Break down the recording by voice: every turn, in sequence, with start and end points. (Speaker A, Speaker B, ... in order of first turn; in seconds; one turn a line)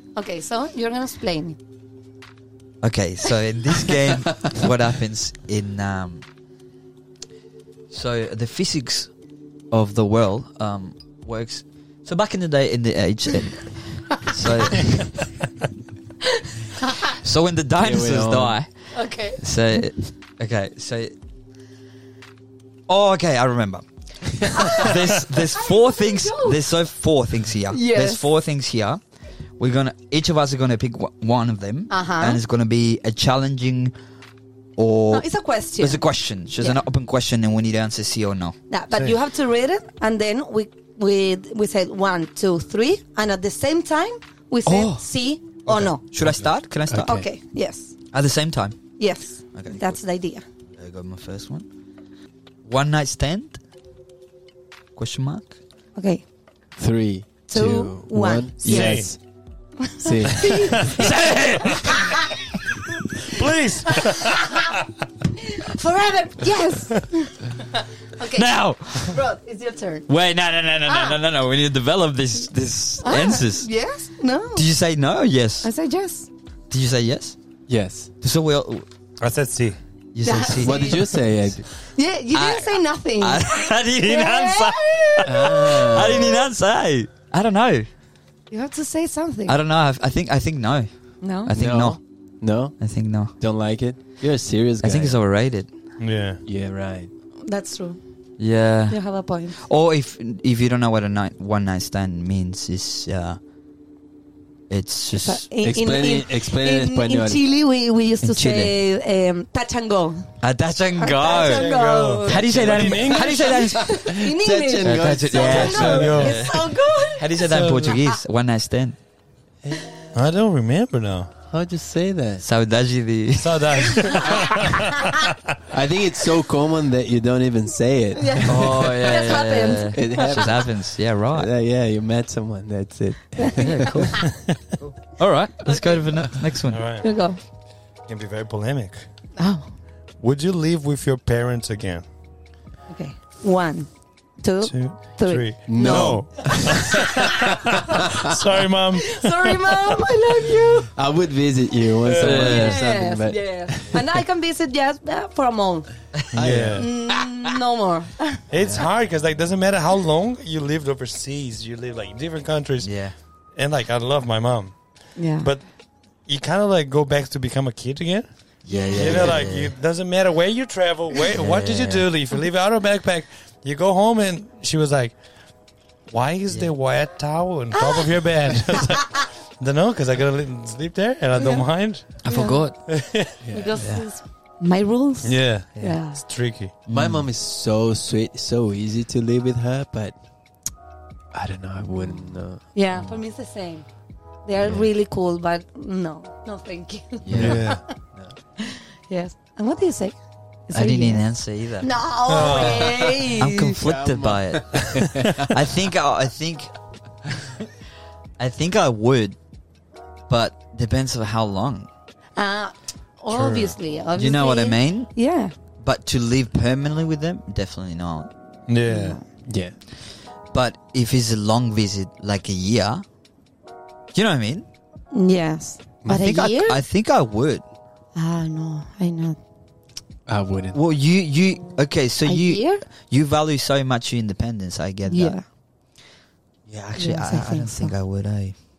Speaker A: 0.1-1.6
Speaker B: 2.8-6.2
Speaker B: 7.9-9.1
Speaker B: 9.7-15.1
Speaker A: 16.8-17.1
Speaker B: 17.2-21.1
Speaker C: 17.8-18.6
Speaker A: 18.9-19.4
Speaker B: 22.9-23.9
Speaker B: 24.4-29.0
Speaker A: 24.6-24.9
Speaker A: 25.6-26.6
Speaker A: 27.7-28.2
Speaker B: 29.6-33.9
Speaker A: 31.9-32.4
Speaker B: 34.8-35.2
Speaker A: 35.1-36.0
Speaker B: 35.8-38.5
Speaker A: 38.7-46.0
Speaker B: 44.6-45.0
Speaker B: 45.6-47.2
Speaker C: 46.2-47.3
Speaker A: 47.0-47.9
Speaker B: 48.1-48.8
Speaker A: 49.0-50.4
Speaker B: 49.5-50.0
Speaker B: 50.8-51.6
Speaker B: 52.6-53.6
Speaker B: 55.0-55.5
Speaker A: 56.0-56.2
Speaker C: 56.8-59.2
Speaker A: 57.5-59.1
Speaker D: 58.6-59.1
Speaker A: 59.8-61.1
Speaker C: 60.0-60.9
Speaker D: 60.5-61.1
Speaker B: 61.0-61.9
Speaker A: 61.6-62.2
Speaker D: 63.2-64.8
Speaker A: 64.1-64.6
Speaker A: 65.4-70.1
Speaker B: 68.3-69.2
Speaker B: 70.1-73.7
Speaker A: 70.8-71.2
Speaker A: 73.0-74.7
Speaker B: 74.5-75.7
Speaker A: 75.6-76.3
Speaker B: 76.7-77.4
Speaker C: 77.7-78.1
Speaker B: 78.2-78.8
Speaker D: 79.2-79.8
Speaker B: 80.1-81.2
Speaker A: 80.2-81.2
Speaker C: 80.6-81.6
Speaker A: 81.9-86.4
Speaker B: 82.3-87.9
Speaker C: 85.2-86.4
Speaker A: 88.5-89.5
Speaker B: 89.5-92.0
Speaker A: 91.2-91.5
Speaker C: 91.5-95.2
Speaker B: 92.8-93.3
Speaker B: 94.8-95.7
Speaker D: 96.0-96.4
Speaker C: 96.4-97.1
Speaker A: 97.4-98.0
Speaker B: 98.4-99.0
Speaker A: 98.9-99.6
Speaker B: 99.6-103.4
Speaker B: 104.7-105.4
Speaker A: 105.2-110.3
Speaker C: 105.6-107.4
Speaker B: 108.2-108.7
Speaker B: 110.4-111.7
Speaker A: 111.0-118.0
Speaker D: 111.3-113.5
Speaker B: 112.2-114.0
Speaker C: 113.8-116.3
Speaker B: 114.8-119.0
Speaker D: 115.5-116.4
Speaker D: 117.5-118.0
Speaker D: 120.1-121.3
Speaker C: 121.5-122.4
Speaker B: 122.4-124.0
Speaker D: 123.3-124.9
Speaker C: 125.7-128.9
Speaker A: 128.2-130.6
Speaker B: 128.4-131.5
Speaker C: 129.9-130.7
Speaker C: 131.3-134.1
Speaker A: 133.4-134.2
Speaker B: 133.6-136.8
Speaker A: 135.7-136.0
Speaker D: 136.7-137.1
Speaker A: 137.0-137.4
Speaker D: 138.1-139.0
Speaker A: 139.4-139.7
Speaker D: 140.2-142.0
Speaker A: 142.9-147.1
Speaker D: 144.6-149.7
Speaker C: 145.7-147.0
Speaker A: 148.9-150.9
Speaker C: 150.9-154.2
Speaker D: 152.0-152.6
Speaker B: 152.2-152.8
Speaker A: 152.3-156.0
Speaker D: 156.3-156.9
Speaker C: 156.3-156.9
Speaker A: 156.7-158.4
Speaker D: 158.5-162.9
Speaker C: 158.5-158.9
Speaker B: 162.8-163.1
Speaker D: 163.5-165.7
Speaker A: 165.2-165.5
Speaker D: 166.2-168.3
Speaker B: 168.6-169.7
Speaker A: 168.8-169.2
Speaker D: 168.9-175.2
Speaker B: 171.3-172.1
Speaker D: 176.1-182.2
Speaker A: 177.8-178.1
Speaker A: 181.3-181.7
Speaker B: 182.2-182.8
Speaker A: 182.2-182.7
Speaker D: 182.9-183.4
Speaker C: 183.4-183.8
Speaker A: 183.5-186.2
Speaker B: 183.8-184.0
Speaker D: 185.2-186.7
Speaker B: 186.8-187.3
Speaker C: 186.9-190.1
Speaker C: 191.3-192.6
Speaker A: 192.7-193.8
Speaker A: 194.4-197.8
Speaker B: 194.6-194.9
Speaker B: 197.2-197.6
Speaker D: 197.3-197.8
Speaker A: 198.6-200.2
Speaker A: 200.7-201.2
Speaker B: 200.7-201.9
Speaker A: 201.8-203.8
Speaker D: 202.3-203.2
Speaker B: 203.3-206.7
Speaker C: 203.8-205.4
Speaker D: 204.9-205.3
Speaker B: 208.4-209.4
Speaker B: 210.3-211.9
Speaker A: 212.3-215.5
Speaker D: 213.3-213.7
Speaker B: 214.1-215.1
Speaker B: 215.8-218.3
Speaker D: 218.7-219.2
Speaker A: 218.9-219.2
Speaker C: 219.4-219.7
Speaker B: 220.5-223.0
Speaker B: 224.1-224.7
Speaker A: 225.1-226.8
Speaker B: 226.1-227.6
Speaker A: 228.1-229.4
Speaker C: 230.3-230.8
Speaker B: 230.7-235.4
Speaker A: 232.2-232.8
Speaker A: 235.1-235.4
Speaker B: 236.7-238.5
Speaker A: 236.9-237.9